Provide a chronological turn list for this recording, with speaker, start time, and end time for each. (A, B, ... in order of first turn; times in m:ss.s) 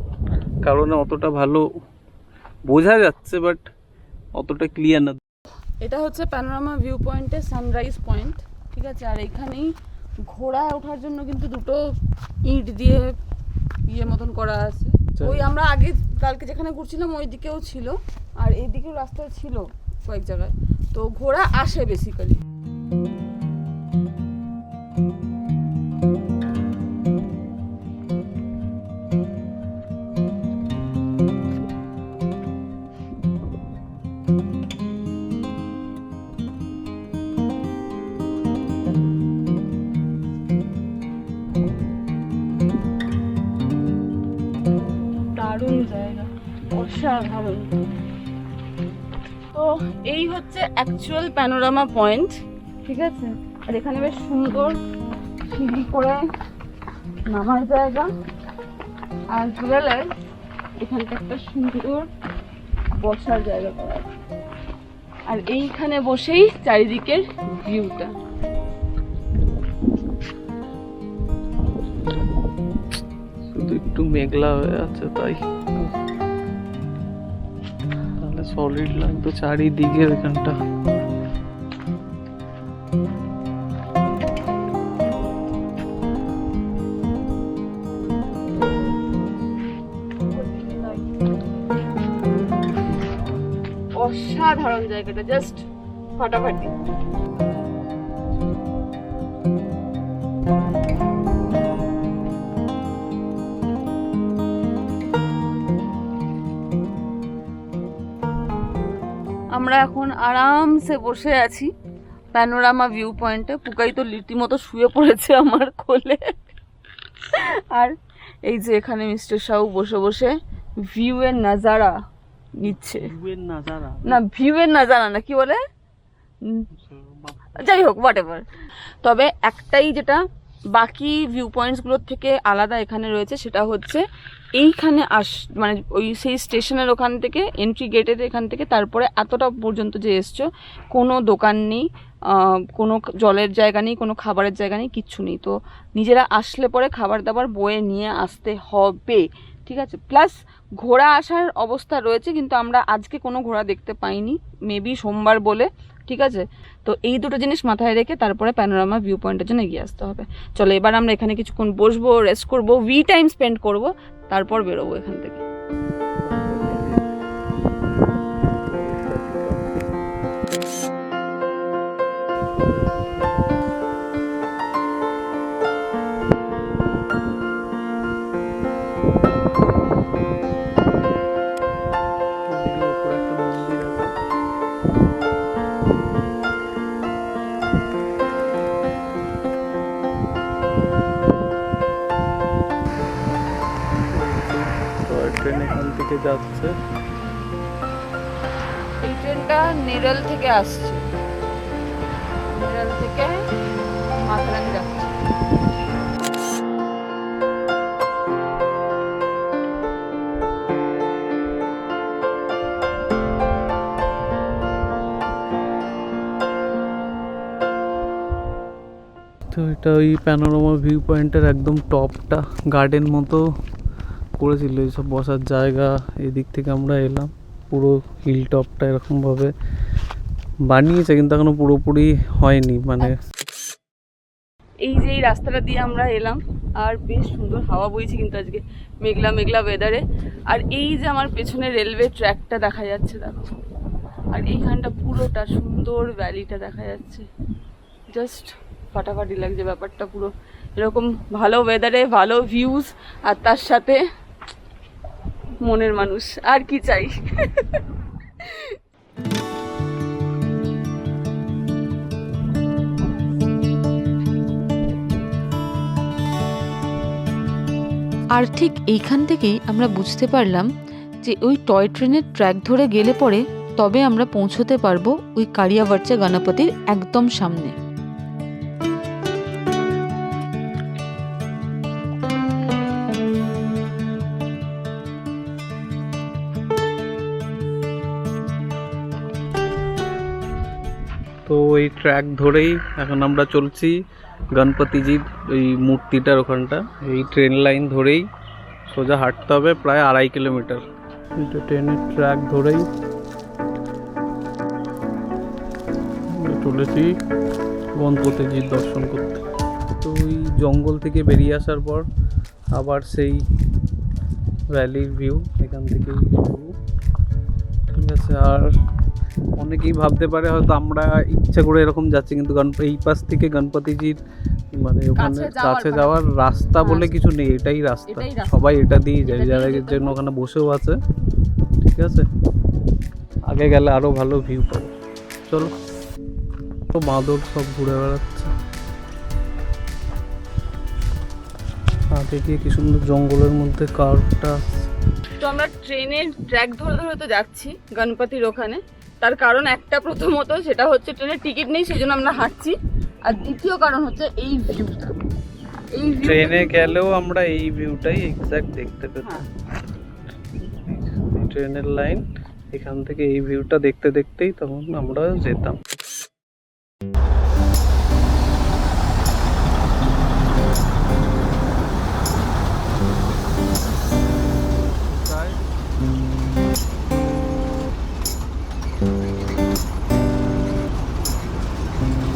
0:00.6-0:01.6 A
0:02.7-0:03.6 A
0:04.4-0:05.2 A
0:05.8-0:09.7 B
0:10.2-0:11.8 B
0:12.5-0:13.2 B
0:13.9-0:22.4 B
0:15.2-0:15.4 A
0:45.4-0:47.8 B
0:49.5-0:52.3 B
0:52.8-0:54.7 B
0:55.5-0:56.2 B
0:57.3-0:58.1 B
0:59.3-1:00.0 B
1:00.8-1:02.1 B
1:03.0-1:04.1 B
1:05.3-1:08.1 B
1:13.5-1:16.0 A
1:18.2-1:20.6 A
1:30.3-1:31.1 B
1:34.0-1:35.6 B
1:36.2-1:36.7 B
1:49.5-1:51.7 B
1:52.3-1:56.5 B
1:57.2-1:57.9 B
1:58.5-2:01.9 B
2:02.6-2:03.1 B
2:02.9-2:04.2 A
2:04.0-2:05.6 B
2:06.7-2:07.6 A
2:07.6-2:08.4 B
2:09.0-2:10.2 B
2:10.7-2:14.0 B
2:14.6-2:21.8 B
2:22.8-2:45.4 B
2:46.2-2:47.1 A
2:48.6-2:49.9 A
3:02.5-3:04.1 A
3:14.1-3:16.7 A
3:19.0-3:21.0 B
3:22.6-3:23.4 B
3:24.2-3:25.2 B
3:39.5-3:43.4 A
3:44.4-3:49.5 A
3:50.7-3:53.2 A
3:54.8-4:03.6 B
4:04.3-4:07.3 B
4:08.1-4:14.0 B
4:15.6-4:17.8 B
4:18.4-4:18.7 B
4:28.4-4:30.7 C
4:31.2-4:37.7 C
4:51.4-4:54.0 A
4:54.6-4:58.2 A
4:58.9-5:00.8 A
5:01.4-5:02.9 A
5:06.3-5:07.1 A
5:08.0-5:09.4 A
5:10.0-5:12.0 A
5:12.7-5:13.4 A
5:14.7-5:16.7 A
5:17.9-5:18.7 A
5:19.6-5:24.2 A
5:24.8-5:31.0 A
5:25.2-5:26.2 B
5:26.8-5:27.2 B
5:28.1-5:28.7 B
5:29.2-5:30.2 B
5:31.8-5:32.3 A
5:33.5-5:34.9 A
5:36.9-5:38.5 A
5:42.1-5:44.6 A
5:45.4-5:55.1 B
5:56.0-5:56.9 B
5:56.2-5:59.4 A
6:00.6-6:05.8 A
6:15.0-6:15.6 A